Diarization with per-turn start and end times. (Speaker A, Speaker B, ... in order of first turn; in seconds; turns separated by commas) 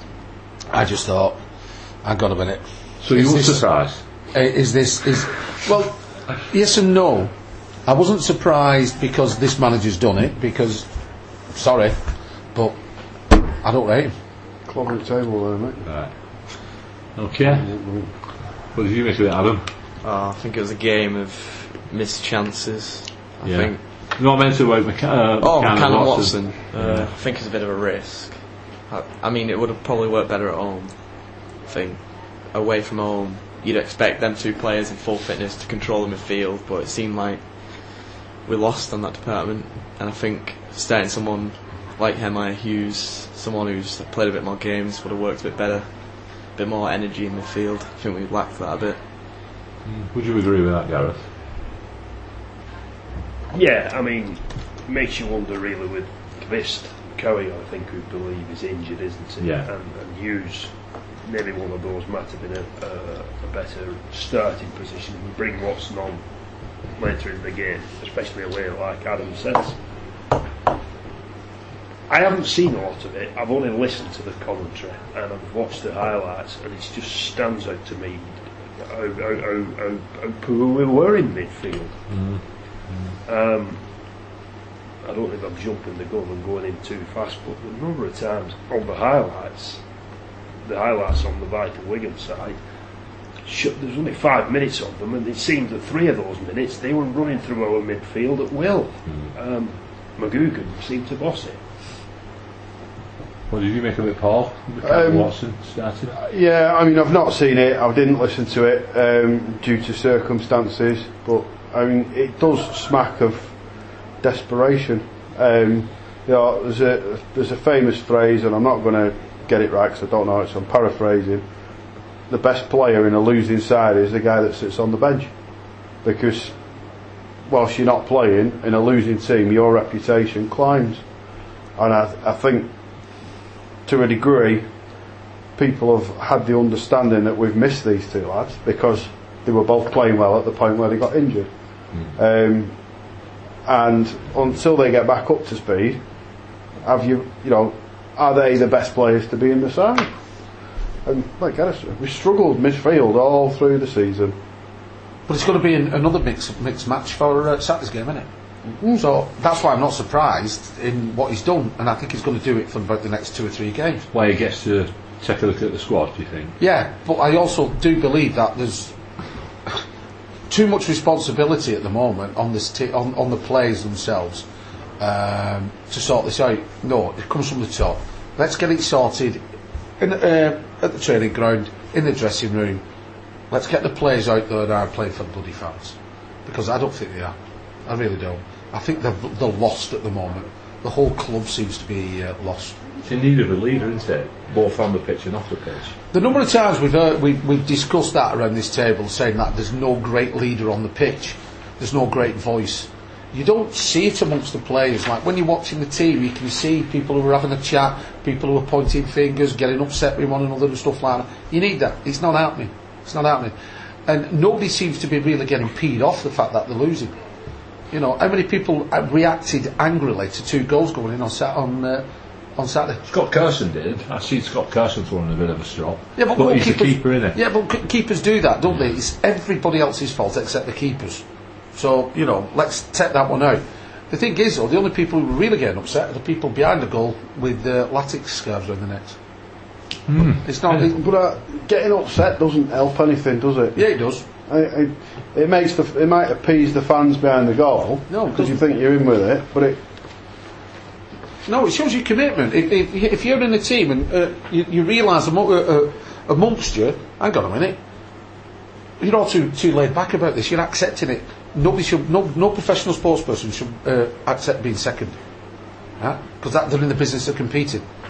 Speaker A: 0.7-1.4, Speaker A: 2.0-3.7, Speaker B: 3.0-4.0, Speaker A: 4.3-7.3, Speaker A: 7.8-10.9, Speaker A: 11.5-12.0, Speaker A: 13.4-14.1, Speaker C: 14.7-15.9, Speaker B: 15.9-17.7, Speaker C: 17.5-18.1, Speaker B: 18.7-19.6, Speaker D: 20.0-23.9, Speaker B: 23.4-27.1, Speaker D: 25.4-49.0, Speaker B: 49.9-51.3, Speaker E: 53.5-60.7, Speaker B: 59.4-59.7, Speaker E: 61.2-66.2, Speaker E: 66.9-69.8, Speaker E: 72.1-82.0, Speaker B: 82.1-83.2, Speaker E: 83.3-83.8, Speaker E: 85.0-89.8, Speaker E: 90.6-92.6, Speaker E: 93.5-101.6, Speaker B: 103.5-106.1, Speaker C: 104.8-105.3, Speaker C: 106.2-113.6, Speaker C: 114.2-121.5, Speaker C: 122.3-125.3, Speaker C: 126.0-126.5, Speaker C: 127.5-131.1, Speaker C: 131.8-132.7, Speaker C: 133.8-134.7, Speaker C: 135.6-142.8, Speaker C: 143.7-146.0, Speaker C: 146.8-150.1, Speaker C: 151.1-154.4, Speaker A: 155.3-158.3, Speaker A: 158.9-164.1, Speaker B: 164.1-166.6, Speaker A: 166.6-169.0, Speaker A: 170.5-174.5, Speaker A: 175.0-179.4, Speaker A: 180.0-182.8, Speaker A: 183.5-192.8, Speaker B: 193.0-196.0, Speaker A: 196.1-213.6, Speaker A: 214.1-217.2, Speaker A: 217.9-222.1, Speaker A: 222.6-223.0, Speaker B: 223.1-227.4, Speaker A: 226.2-239.2, Speaker B: 240.1-240.8, Speaker A: 240.4-241.0, Speaker C: 240.8-249.8, Speaker A: 243.8-244.2, Speaker A: 248.1-248.6, Speaker A: 251.4-257.8, Speaker A: 259.0-265.2, Speaker A: 266.0-267.9